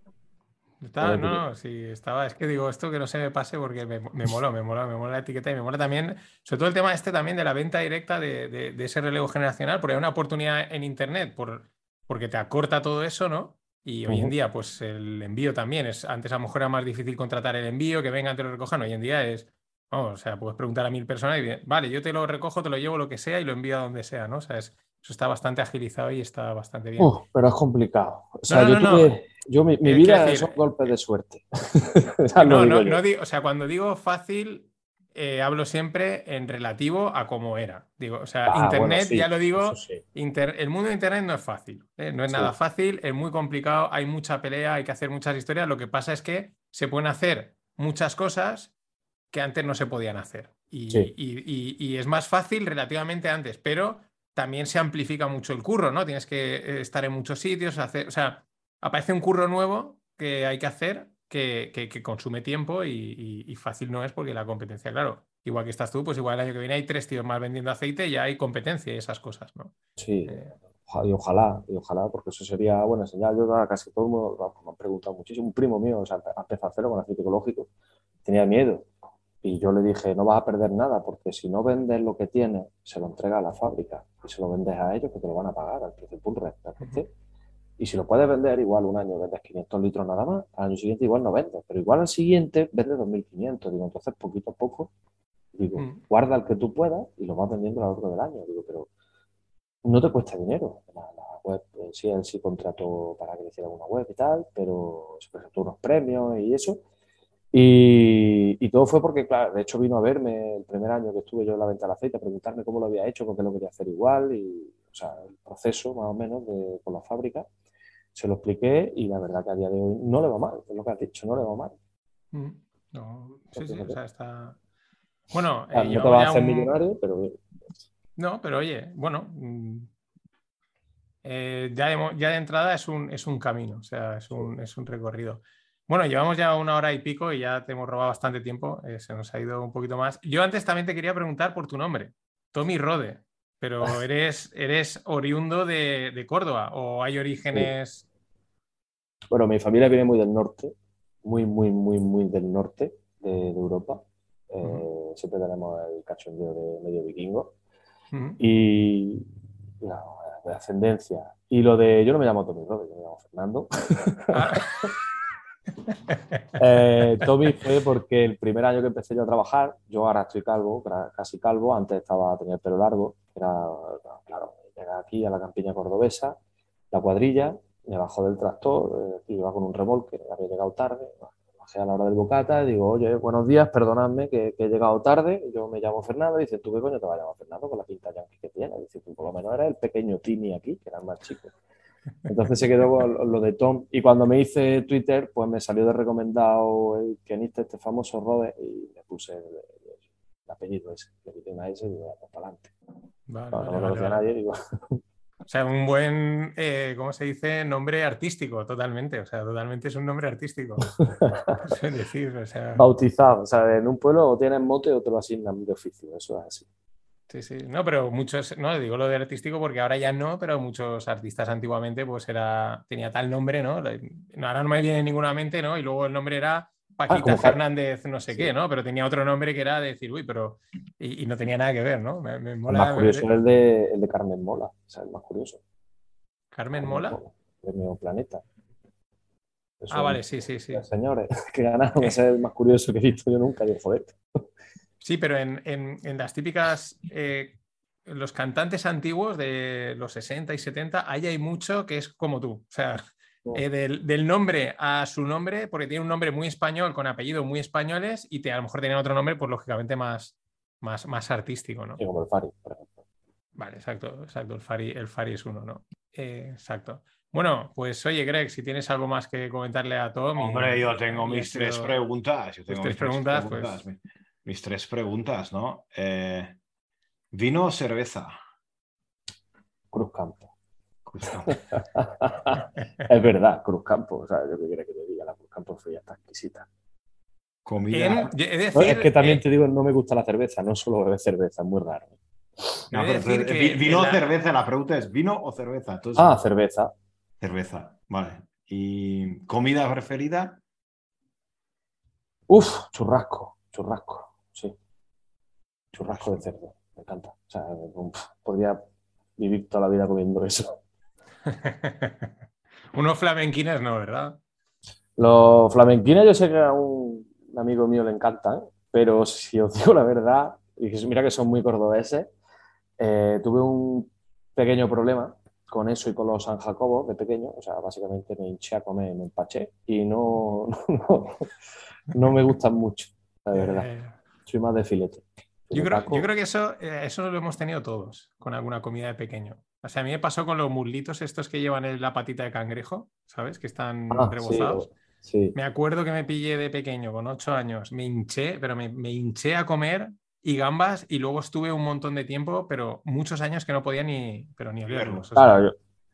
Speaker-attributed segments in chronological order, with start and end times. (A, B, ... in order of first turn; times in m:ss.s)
0:00.8-0:27.1 A
0:01.0-0:01.4 B
0:14.1-0:14.3 B
0:27.0-0:33.0 B
0:28.5-0:29.1 A
0:29.8-0:30.7 A
0:32.4-0:48.7 A
0:38.5-0:40.0 B
0:42.3-0:42.5 B
0:49.3-1:09.7 A
1:10.0-1:17.7 B
1:10.3-1:10.5 A
1:18.2-1:18.9 B
1:19.4-1:27.1 B
1:27.8-1:34.9 B
1:35.5-1:38.9 B
1:35.8-1:36.0 A
1:39.8-1:46.8 B
1:47.5-1:57.5 B
1:58.1-2:01.7 B
2:02.3-2:04.6 A
2:03.5-2:04.0 B
2:05.3-2:06.8 A
2:05.7-2:07.4 B
2:08.2-2:09.9 A
2:11.2-2:28.0 A
2:29.3-2:37.6 B
2:38.1-2:38.4 A
2:38.4-2:39.2 B
2:39.8-2:44.9 B
2:44.3-2:44.8 A
2:46.6-2:56.4 B
2:56.9-3:11.5 B
3:12.3-3:22.7 B
3:23.3-3:24.2 A
3:23.5-3:25.0 B
3:25.5-3:30.9 A
3:31.2-3:31.6 B
3:31.6-3:32.8 A
3:32.8-3:36.7 B
3:37.3-3:53.3 A
3:47.1-3:47.6 B
3:52.7-3:55.6 B
3:56.5-3:57.2 A
3:56.8-3:58.4 B
3:59.8-4:04.4 B
3:59.9-4:00.8 A
4:05.0-4:22.0 A
4:22.0-4:23.0 B
4:23.6-4:31.9 A
4:30.4-4:36.6 C
4:32.7-4:33.8 A
4:37.3-4:38.3 C
4:39.9-4:40.5 B
4:41.0-4:41.6 C
4:41.7-4:46.7 B
4:47.6-4:48.3 C
4:47.9-4:49.4 A
4:48.7-4:52.8 B
4:52.9-4:54.2 A
4:52.9-4:56.3 C
4:56.2-4:56.9 B
4:57.4-5:00.6 C
5:02.5-5:04.7 B
5:05.9-5:08.8 B
5:09.4-5:10.8 B
5:11.5-5:12.3 A
5:12.9-5:14.4 A
5:15.2-5:22.3 B
5:23.0-5:31.5 B
5:32.1-5:33.9 B
5:33.5-5:34.2 A
5:34.4-5:36.2 B
5:35.7-5:44.8 A
5:44.1-5:45.6 B
5:45.5-5:55.6 A
5:54.9-5:55.3 C
5:55.3-5:55.7 B